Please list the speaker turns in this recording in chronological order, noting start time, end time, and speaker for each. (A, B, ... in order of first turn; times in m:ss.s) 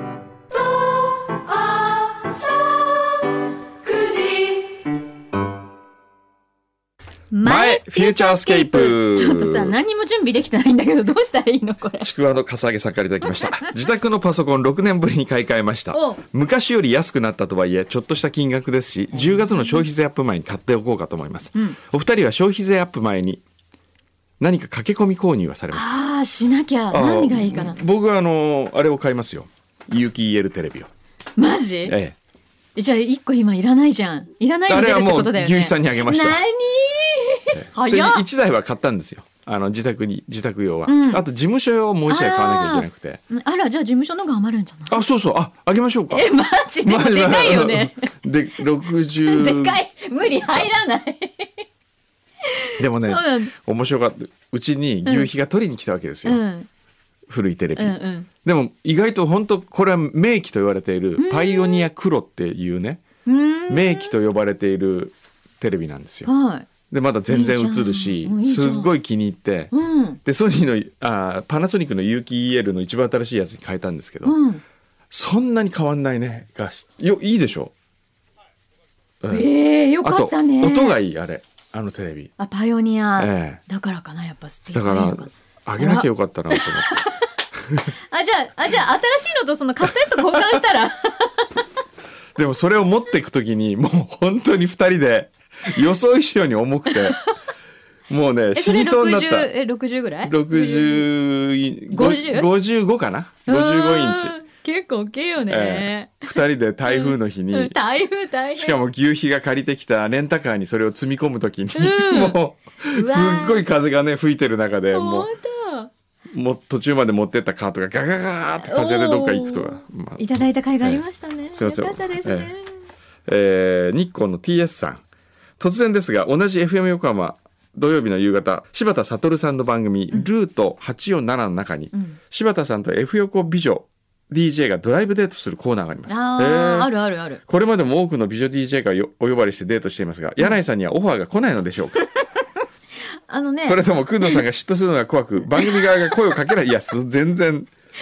0:00.5-0:05.0 A
0:07.3-0:12.1 A
0:07.4-0:09.7 B
0:12.0-0:23.4 B
0:15.9-0:16.2 A
0:19.1-0:19.8 A
0:24.4-0:26.0 B
0:25.7-0:27.8 A
0:26.9-0:30.9 B
0:31.4-0:32.0 A
0:31.9-0:32.2 B
0:32.8-0:38.2 A
0:34.7-0:36.4 B
0:37.5-0:43.2 B
0:40.9-0:41.2 A
0:42.1-0:45.0 A
0:44.9-0:46.3 B
0:46.1-0:48.2 A
0:46.8-0:49.8 B
0:49.2-0:51.6 A
0:52.5-0:53.5 A
0:52.8-0:56.4 B
0:56.2-0:56.7 A
0:57.3-1:03.0 B
0:57.8-0:58.3 A
1:01.2-1:01.9 A
1:03.3-1:04.1 A
1:03.7-1:06.3 B
1:06.3-1:06.7 A
1:06.9-1:09.7 B
1:07.3-1:08.9 A
1:09.7-1:10.2 A
1:10.2-1:14.4 B
1:14.2-1:14.6 A
1:15.1-1:17.7 B
1:19.2-1:19.5 B
1:19.3-1:21.0 A
1:20.0-1:22.3 B
1:22.4-1:27.3 A
1:23.2-1:23.6 B
1:24.7-1:26.9 B
1:27.9-1:31.5 A
1:30.1-1:30.6 B
1:32.4-1:37.2 B
1:38.1-1:39.5 B
1:38.5-1:41.1 A
1:40.2-1:44.4 B
1:41.9-1:42.5 A
1:43.5-1:46.3 A
1:45.5-1:47.8 B
1:46.8-1:48.8 A
1:48.5-1:55.3 B
1:51.7-1:52.4 A
1:52.9-1:53.7 A
1:54.9-1:55.9 A
1:56.3-2:00.2 B
1:58.6-2:02.8 A
2:01.5-2:02.5 B
2:03.3-2:05.0 B
2:05.6-2:16.9 B
2:16.1-2:17.4 A
2:17.5-2:22.0 B
2:23.3-2:24.4 A
2:23.6-2:27.7 B
2:25.6-2:26.2 A